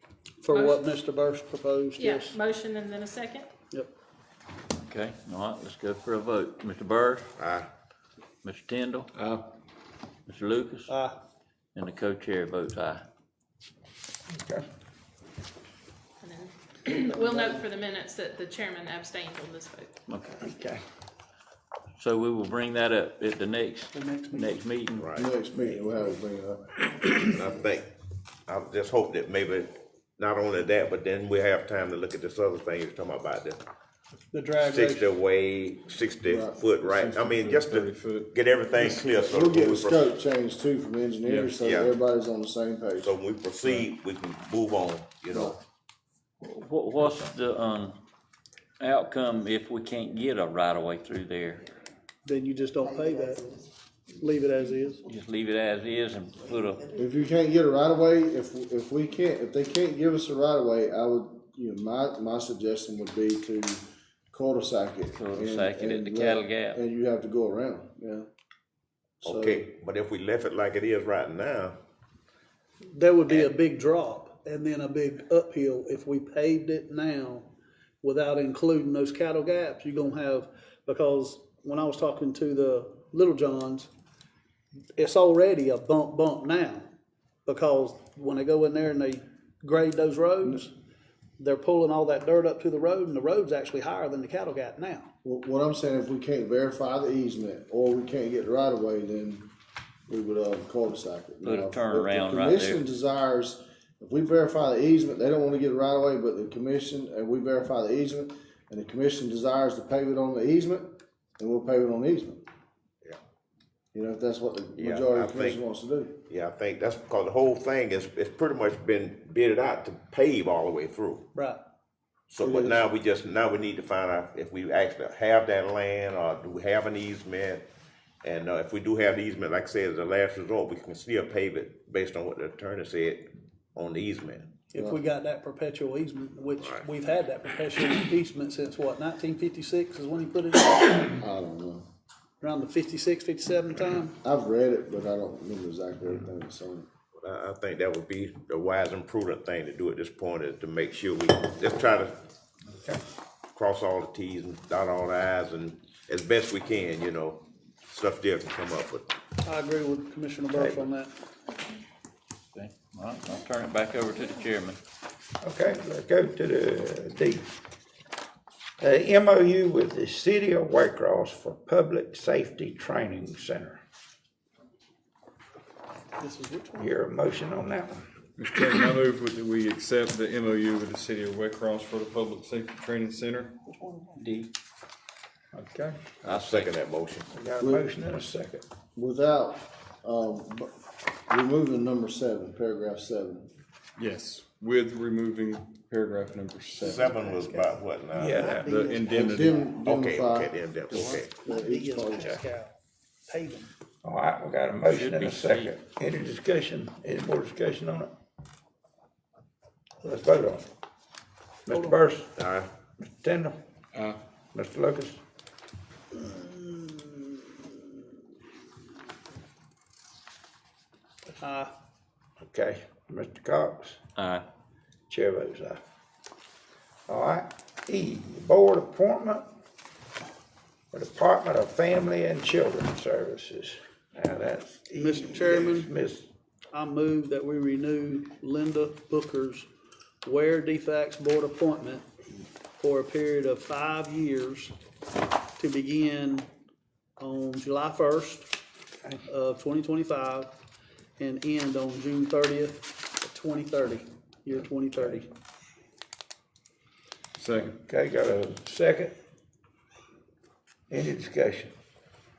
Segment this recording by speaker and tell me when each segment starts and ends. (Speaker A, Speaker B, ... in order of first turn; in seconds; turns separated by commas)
Speaker A: 0.4-2.4, Speaker B: 0.5-0.9, Speaker B: 2.0-3.5, Speaker C: 4.8-7.3, Speaker D: 7.4-7.7, Speaker C: 8.4-9.1, Speaker E: 9.2-9.5, Speaker C: 10.3-10.9, Speaker A: 10.9-11.2, Speaker C: 11.7-13.0, Speaker F: 14.3-14.6, Speaker B: 16.2-19.9, Speaker A: 17.0-17.6, Speaker C: 20.1-20.4, Speaker F: 20.4-20.8, Speaker C: 21.9-25.1, Speaker A: 23.9-24.6, Speaker D: 25.0-25.3, Speaker G: 25.1-26.8, Speaker D: 27.1-27.9, Speaker D: 28.5-33.6, Speaker A: 34.3-35.1, Speaker D: 34.6-40.1, Speaker G: 36.3-36.6, Speaker E: 36.7-38.8, Speaker G: 38.8-43.1, Speaker E: 41.2-41.5, Speaker D: 41.5-42.0, Speaker D: 43.0-45.5, Speaker C: 46.4-48.0, Speaker C: 48.8-51.6, Speaker A: 52.2-53.5, Speaker A: 54.2-55.0, Speaker C: 55.0-56.8, Speaker G: 56.9-68.3, Speaker C: 65.1-66.8, Speaker G: 69.2-69.7, Speaker D: 69.2-71.8, Speaker A: 72.9-77.5, Speaker A: 78.0-83.9, Speaker A: 85.0-86.9, Speaker A: 87.5-90.7, Speaker A: 91.4-95.1, Speaker G: 95.2-99.5, Speaker G: 100.1-112.4, Speaker C: 101.4-102.8, Speaker G: 113.9-116.2, Speaker D: 114.7-115.6, Speaker D: 116.2-121.2, Speaker A: 121.3-121.6, Speaker D: 122.3-127.7, Speaker G: 122.4-122.9, Speaker D: 128.2-134.5, Speaker A: 134.7-141.1, Speaker D: 136.6-136.9, Speaker G: 141.2-141.9, Speaker A: 142.4-144.1, Speaker G: 144.2-146.9, Speaker D: 147.1-152.2, Speaker F: 152.7-153.0, Speaker D: 153.5-159.1, Speaker A: 159.4-161.1, Speaker F: 160.5-160.8, Speaker C: 162.5-164.8, Speaker F: 165.4-167.4, Speaker F: 168.8-173.8, Speaker A: 176.2-176.9, Speaker F: 176.8-178.0, Speaker E: 178.4-183.6, Speaker C: 184.2-184.5, Speaker F: 185.5-186.1, Speaker C: 186.2-186.7, Speaker D: 186.2-187.3, Speaker F: 187.3-188.6, Speaker G: 187.6-187.9, Speaker G: 188.9-190.7, Speaker G: 191.3-193.5, Speaker E: 194.0-197.2, Speaker D: 196.8-198.5, Speaker F: 198.1-198.8, Speaker A: 198.5-198.9, Speaker E: 198.5-199.6, Speaker G: 199.1-200.5, Speaker D: 199.7-201.3, Speaker A: 200.9-203.7, Speaker G: 201.5-202.2, Speaker F: 204.0-208.1, Speaker C: 204.8-205.7, Speaker F: 210.0-210.7, Speaker F: 211.7-212.3, Speaker A: 211.7-212.0, Speaker D: 212.4-212.7, Speaker F: 213.0-213.6, Speaker F: 214.5-215.2, Speaker A: 216.1-217.9, Speaker A: 221.3-221.7, Speaker F: 222.4-224.0, Speaker C: 224.2-224.4, Speaker F: 225.1-225.8, Speaker F: 227.1-229.4, Speaker F: 230.9-236.3, Speaker A: 234.9-235.9, Speaker A: 236.7-239.7, Speaker A: 240.2-242.1, Speaker A: 242.8-244.7, Speaker A: 245.6-246.5, Speaker A: 247.2-248.5, Speaker A: 249.3-250.5, Speaker A: 251.2-255.3, Speaker F: 255.0-255.2, Speaker E: 257.4-257.8, Speaker F: 257.9-259.1, Speaker F: 260.9-261.8